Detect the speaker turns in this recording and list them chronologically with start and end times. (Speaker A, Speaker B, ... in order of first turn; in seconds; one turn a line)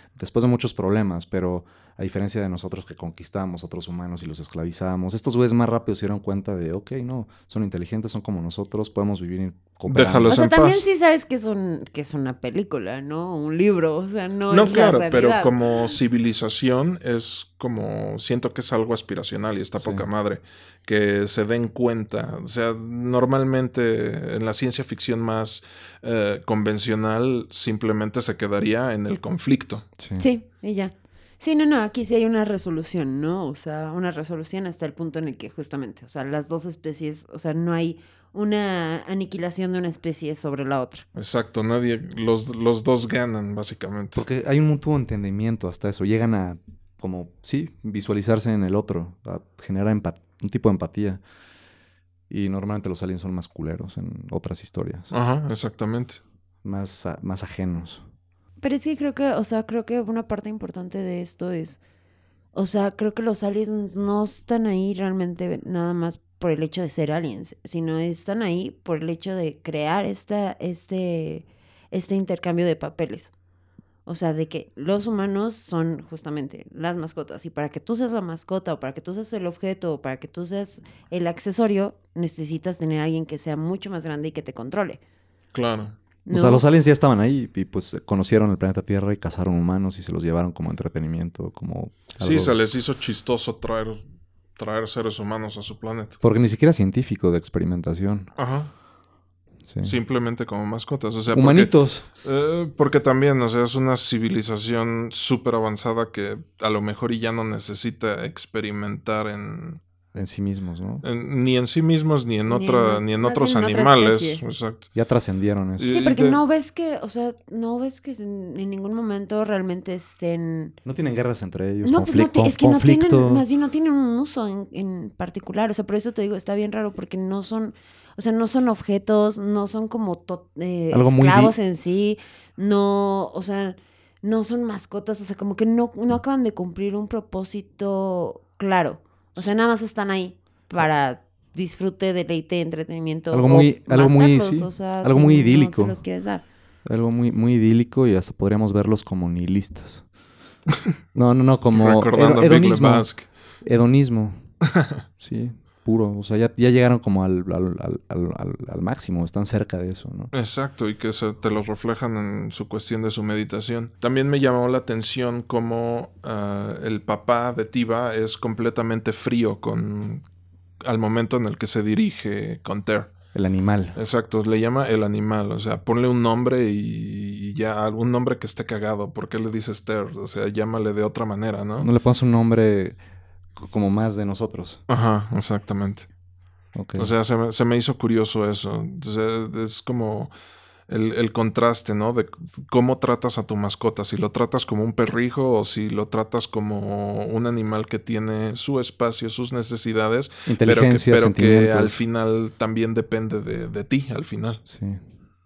Speaker A: 0.1-10.4
Speaker B: 9.9-10.8
Speaker C: 10.3-15.6
Speaker B: 14.5-29.8
Speaker A: 19.8-20.1
Speaker A: 30.0-30.2
Speaker C: 30.2-41.0
Speaker B: 41.1-44.2
Speaker A: 44.1-51.2
Speaker A: 52.3-55.1
Speaker B: 55.1-56.2
Speaker A: 56.6-58.0
Speaker C: 58.6-61.8
Speaker C: 62.5-73.3
Speaker C: 74.0-85.0
Speaker B: 85.5-86.0
Speaker C: 86.2-86.6
Speaker A: 86.3-92.5
Speaker B: 92.2-94.0
Speaker B: 94.5-96.2
Speaker A: 96.2-98.3
Speaker B: 98.4-98.7
Speaker A: 99.7-100.0
Speaker B: 99.8-109.8
Speaker A: 101.3-102.0
Speaker A: 110.1-111.0
Speaker B: 111.0-114.9
Speaker C: 112.5-114.4
Speaker A: 114.9-115.9
Speaker B: 115.8-116.4
Speaker C: 115.9-120.8
Speaker A: 120.8-123.4
Speaker C: 121.8-146.4
Speaker A: 130.9-131.5
Speaker A: 143.3-146.0
Speaker A: 146.8-150.0
Speaker A: 151.1-153.1
Speaker B: 151.7-153.3
Speaker A: 153.6-154.4
Speaker A: 155.2-160.3
Speaker B: 160.3-170.2
Speaker B: 170.8-173.1
Speaker A: 173.3-174.0
Speaker B: 173.9-181.9
Speaker A: 181.8-183.0
Speaker A: 183.6-184.8
Speaker B: 184.9-186.1
Speaker A: 186.7-187.1
Speaker B: 187.0-190.3
Speaker B: 190.9-204.6
Speaker A: 200.5-202.0
Speaker A: 204.6-205.0